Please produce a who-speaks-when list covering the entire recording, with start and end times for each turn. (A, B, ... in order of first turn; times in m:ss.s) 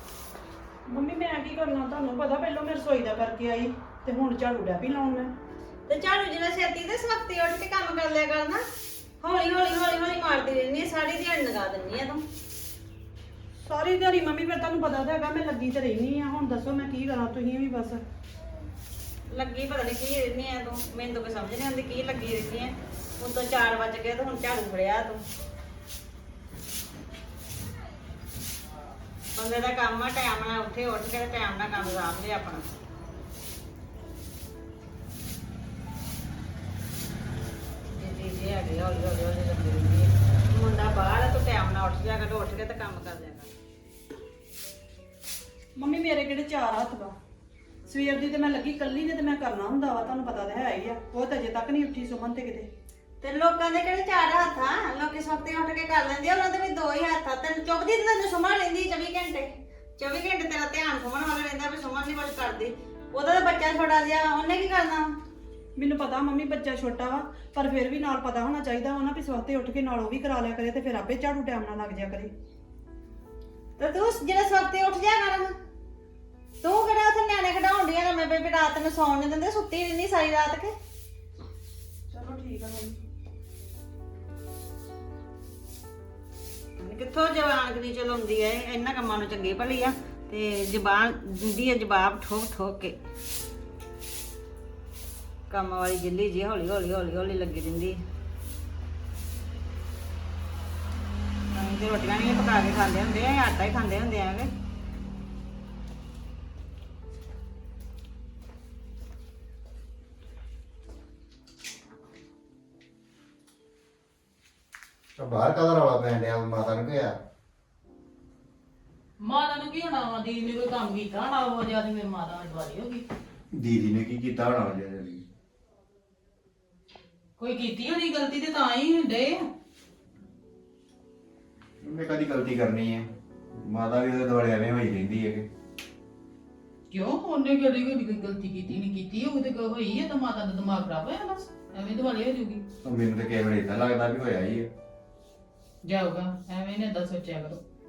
0:00.9-0:05.3 A
0:05.9-0:08.6 B
0:09.2-0:12.2 B
0:13.6-0:18.0 A
0:19.3-0:25.2 B
0:29.3-0:32.7 B
0:37.9-0:43.5 B
0:45.8-0:47.1 A
0:47.8-0:52.7 A
0:53.2-1:05.1 B
1:05.8-1:12.3 A
1:13.8-1:15.5 B
1:16.6-1:20.7 B
1:22.1-1:23.0 A
1:26.8-1:33.0 B
1:35.5-1:38.0 B
1:41.5-1:44.5 B
1:55.2-1:57.2 C
1:59.2-2:03.0 D
2:03.5-2:05.2 C
2:07.4-2:09.4 D
2:11.8-2:15.4 C
2:16.9-2:22.6 D
2:22.8-2:24.7 C
2:25.8-2:27.6 D